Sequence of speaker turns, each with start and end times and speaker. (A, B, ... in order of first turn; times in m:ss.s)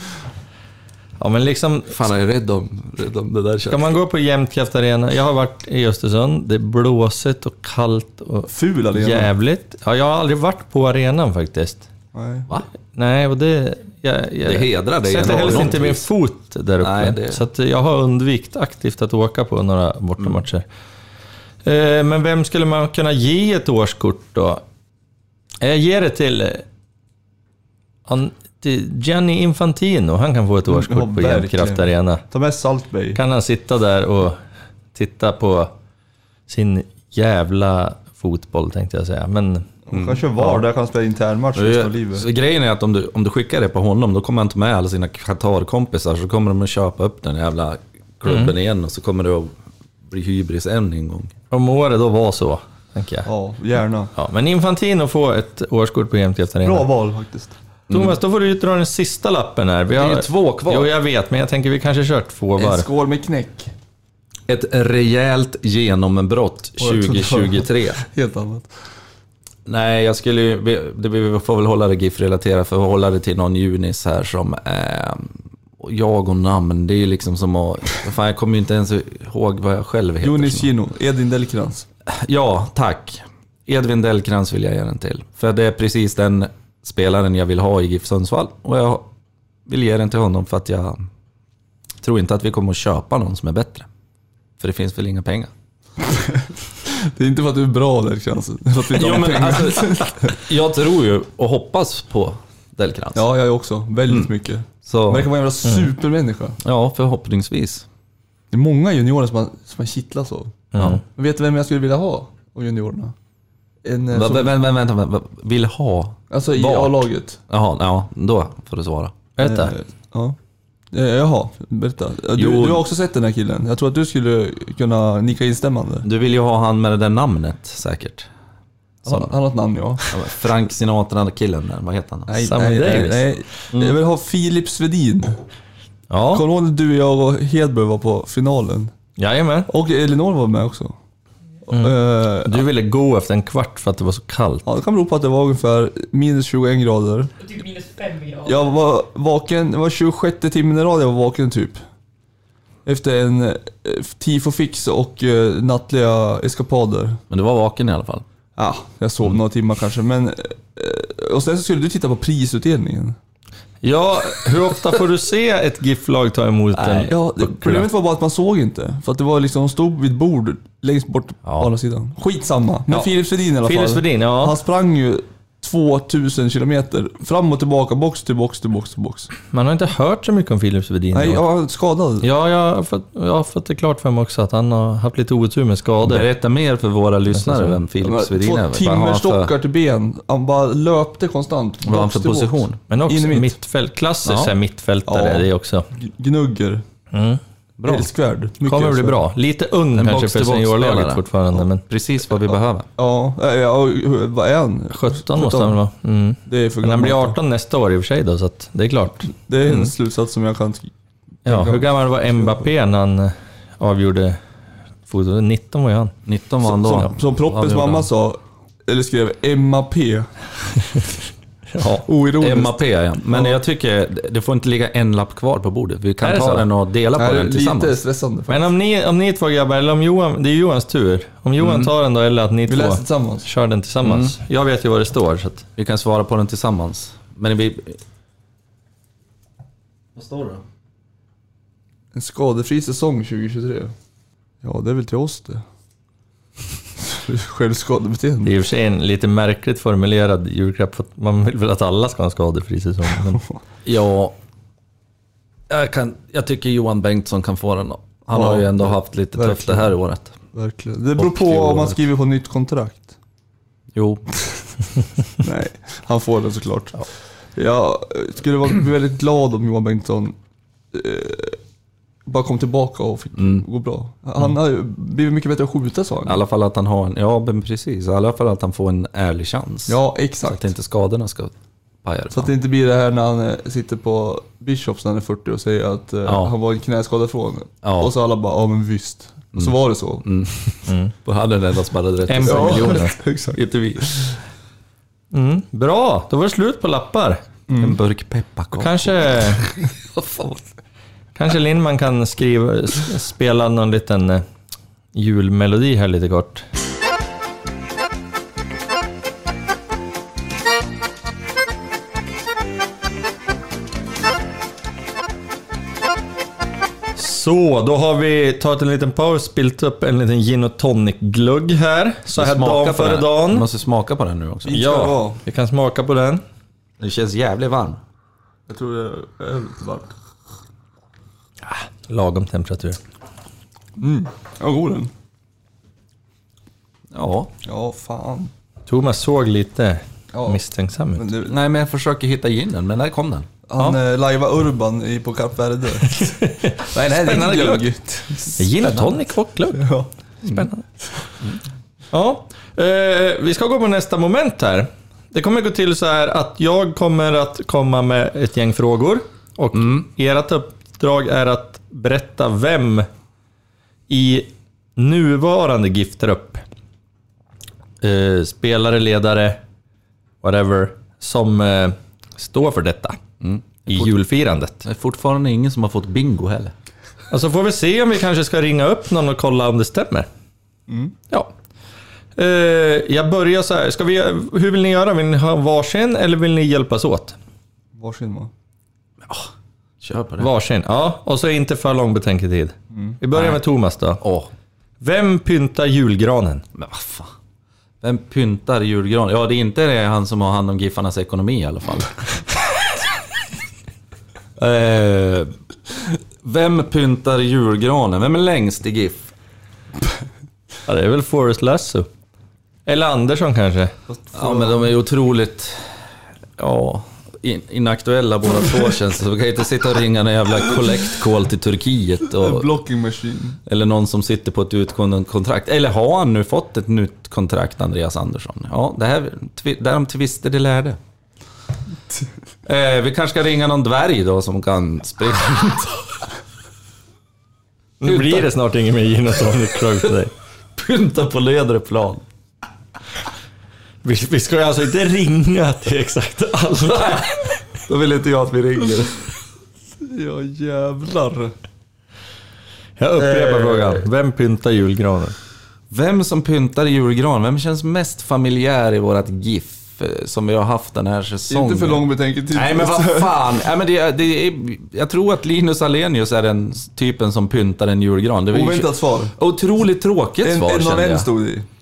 0:01.2-0:01.9 A
0:01.9-0:04.0 B
0:03.7-0:11.8 A
0:08.5-0:09.3 C
0:12.1-0:12.5 C
0:13.0-0:20.6 A
0:14.5-0:16.0 B
0:15.2-0:15.8 C
0:16.8-0:17.4 B
0:21.6-0:24.6 A
0:25.6-0:26.6 A
0:28.1-0:32.2 A
0:30.7-0:33.2 C
0:33.1-0:34.4 A
0:35.0-0:35.7 A
0:36.5-0:39.7 A
0:39.9-0:42.3 C
0:39.9-0:40.3 B
0:41.6-0:49.5 B
0:48.3-0:48.5 A
0:50.1-0:51.3 B
0:51.5-0:53.3 A
0:53.2-0:54.1 C
0:54.2-0:56.9 A
0:56.6-0:57.6 C
0:57.9-0:58.2 B
0:57.9-1:02.9 A
1:00.0-1:00.9 B
1:02.6-1:03.7 C
1:04.5-1:08.0 B
1:06.8-1:08.7 C
1:09.7-1:20.7 B
1:20.2-1:21.9 C
1:22.1-1:29.1 B
1:29.7-1:31.0 B
1:32.0-1:33.9 B
1:34.6-1:35.5 B
1:36.0-1:40.3 C
1:38.9-1:43.2 B
1:43.1-1:46.6 C
1:44.8-1:45.3 B
1:46.6-1:47.9 B
1:48.5-1:53.2 C
1:50.7-1:51.0 A
1:53.8-1:54.5 C
1:54.1-1:59.2 B
1:56.3-1:57.4 C
1:59.4-1:59.7 A
1:59.4-2:00.4 C
2:00.9-2:06.1 C
2:02.4-2:02.8 B
2:06.0-2:08.3 B
2:09.0-2:10.3 C
2:09.1-2:09.3 B
2:10.1-2:12.4 B
2:12.3-2:15.4 C
2:12.4-2:13.3 A
2:16.1-2:16.4 A
2:16.3-2:18.9 C
2:19.2-2:19.7 A
2:19.7-2:21.0 C
2:21.7-2:22.7 C
2:21.7-2:24.6 A
2:24.6-2:31.8 C
2:32.8-2:37.2 C
2:37.3-2:38.2 B
2:38.6-2:43.2 C
2:43.8-2:47.8 A
2:46.8-2:47.1 B
2:47.0-2:59.3 C
2:53.6-2:54.6 A
2:59.5-3:01.4 A
3:01.1-3:02.3 C
3:02.2-3:06.3 A
3:06.0-3:09.5 B
3:07.3-3:07.8 A
3:08.0-3:13.6 C
3:11.8-3:12.8 B
3:12.9-3:15.9 A
3:14.2-3:14.5 B
3:15.1-3:16.8 C
3:17.1-3:17.4 A
3:17.8-3:18.1 B
3:17.9-3:19.2 C
3:18.6-3:21.8 A
3:20.0-3:22.9 B
3:23.0-3:25.8 C
3:24.9-3:29.3 A
3:26.5-3:27.4 C
3:29.4-3:30.9 C
3:31.4-3:32.6 C
3:31.4-3:34.4 A
3:35.1-3:36.1 A
3:36.3-3:38.1 B
3:36.6-3:40.3 C
3:41.7-3:42.1 A
3:42.0-3:43.6 C
3:42.4-3:48.0 B
3:46.2-3:46.7 A
3:47.2-3:48.7 C
3:48.5-3:55.6 A
3:51.6-3:51.9 B
3:52.7-3:53.5 C
3:54.0-3:54.4 B
3:55.8-3:58.0 B
4:00.2-4:00.6 B
4:02.1-4:03.9 C
4:04.6-4:05.6 C
4:07.0-4:08.5 C
4:08.4-4:13.4 A
4:13.8-4:14.4 B
4:15.7-4:20.4 B
4:18.3-4:19.9 C
4:20.5-4:23.2 C
4:21.2-4:22.0 B
4:23.9-4:24.2 B
4:25.4-4:30.4 C
4:30.9-4:31.6 C
4:32.3-4:36.4 C
4:33.4-4:33.6 B
4:36.3-4:41.5 B
4:39.9-4:40.7 C
4:42.0-4:42.5 B
4:42.3-4:50.2 C
4:46.2-4:46.5 B
4:47.8-4:48.1 B
4:49.6-4:53.1 B
4:50.9-4:51.1 A
4:52.3-4:54.0 A
4:52.4-4:54.3 C
4:55.3-4:57.4 A
4:57.7-4:58.0 C
4:57.8-5:00.6 B
4:58.8-4:59.6 A
5:01.4-5:04.4 A
5:05.1-5:06.6 A
5:17.2-5:23.7 A
5:22.4-5:24.8 B
5:24.6-5:25.4 C
5:24.7-5:26.4 A
5:27.0-5:28.0 B
5:28.7-5:30.1 C
5:31.7-5:33.0 A
5:34.0-5:35.1 C
5:37.1-5:37.5 B
5:37.6-5:38.5 C
5:38.9-5:41.3 A
5:40.3-5:40.6 C
5:41.2-5:41.6 C
5:41.5-5:43.5 B
5:43.7-5:48.8 C
5:46.1-5:47.9 A
5:48.6-5:49.9 A
5:49.8-5:50.1 C
5:50.4-5:50.8 A
5:52.1-6:03.1 A
5:59.8-6:00.1 B
6:04.1-6:06.6 A
6:08.0-6:09.6 A
6:10.4-6:13.2 A
6:13.4-6:14.1 B
6:13.9-6:14.9 A
6:14.8-6:16.7 B
6:17.3-6:20.3 A
6:20.9-6:21.2 C
6:22.4-6:27.4 A
6:28.0-6:28.5 C
6:30.0-6:30.5 B
6:30.4-6:34.2 A
6:32.9-6:33.2 C
6:33.3-6:33.6 B
6:34.2-6:34.5 B
6:35.0-6:36.6 A
6:36.8-6:37.3 B
6:38.0-6:42.4 B
6:44.6-6:45.5 B
6:46.4-6:49.3 B
6:50.9-6:52.1 A
6:52.9-6:53.9 A
6:54.1-6:54.9 C
6:54.3-6:56.0 B
6:56.6-7:02.7 B
7:02.3-7:03.6 C
7:03.7-7:11.0 B
7:12.7-7:16.1 B
7:18.0-7:20.3 A
7:18.0-7:18.5 B
7:20.8-7:22.2 B
7:24.0-7:27.5 A
7:26.9-7:29.3 B
7:30.0-7:31.5 C
7:33.0-7:35.4 A
7:33.2-7:34.0 B
7:35.9-7:51.3 B
7:41.5-7:43.4 C
7:48.5-7:49.4 C
7:50.4-7:51.7 C